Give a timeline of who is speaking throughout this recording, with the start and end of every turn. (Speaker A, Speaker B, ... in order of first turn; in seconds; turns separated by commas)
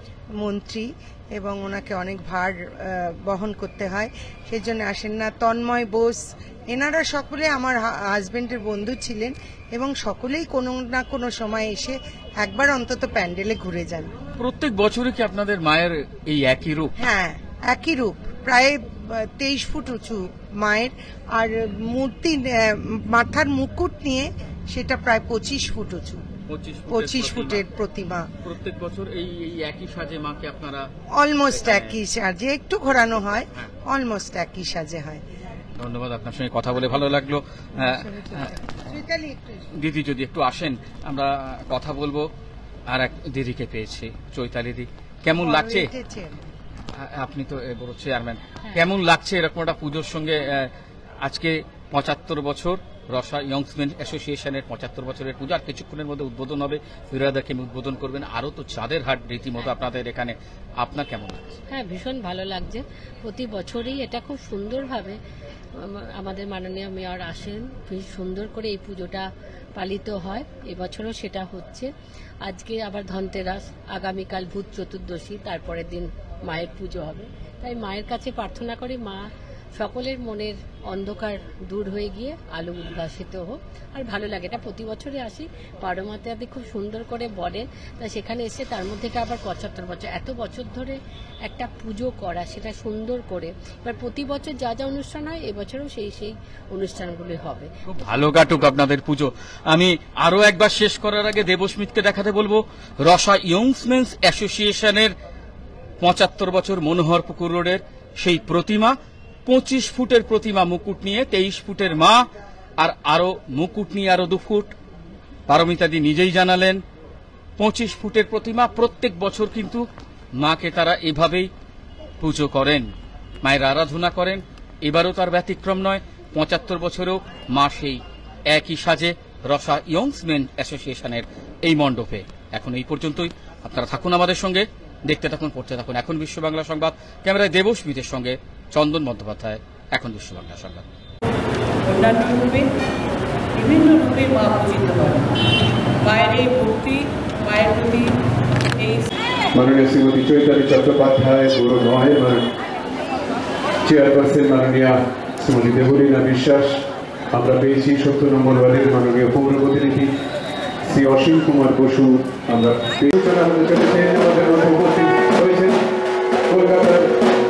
Speaker A: 0.4-14.1, Speaker B: 14.4-16.9, Speaker A: 17.0-26.2, Speaker B: 26.5-27.6, Speaker A: 26.9-28.3, Speaker B: 28.4-30.9, Speaker A: 31.1-35.2, Speaker B: 31.5-32.0, Speaker B: 35.8-38.5, Speaker A: 37.8-39.7, Speaker B: 39.8-42.3, Speaker B: 42.9-45.9, Speaker A: 45.4-46.4, Speaker B: 47.0-61.6, Speaker C: 61.7-65.2, Speaker C: 65.8-71.9, Speaker C: 72.4-79.2, Speaker C: 79.8-97.7, Speaker B: 97.9-105.1, Speaker B: 106.0-112.3, Speaker B: 112.8-114.7, Speaker B: 115.5-116.8, Speaker B: 117.6-119.8, Speaker B: 120.4-121.5, Speaker B: 122.2-122.9, Speaker B: 123.4-140.8, Speaker D: 141.9-142.7, Speaker D: 143.6-145.3, Speaker D: 146.0-148.2, Speaker D: 148.8-149.1, Speaker E: 149.5-152.5, Speaker E: 153.8-160.1, Speaker E: 160.8-165.8, Speaker E: 166.5-167.1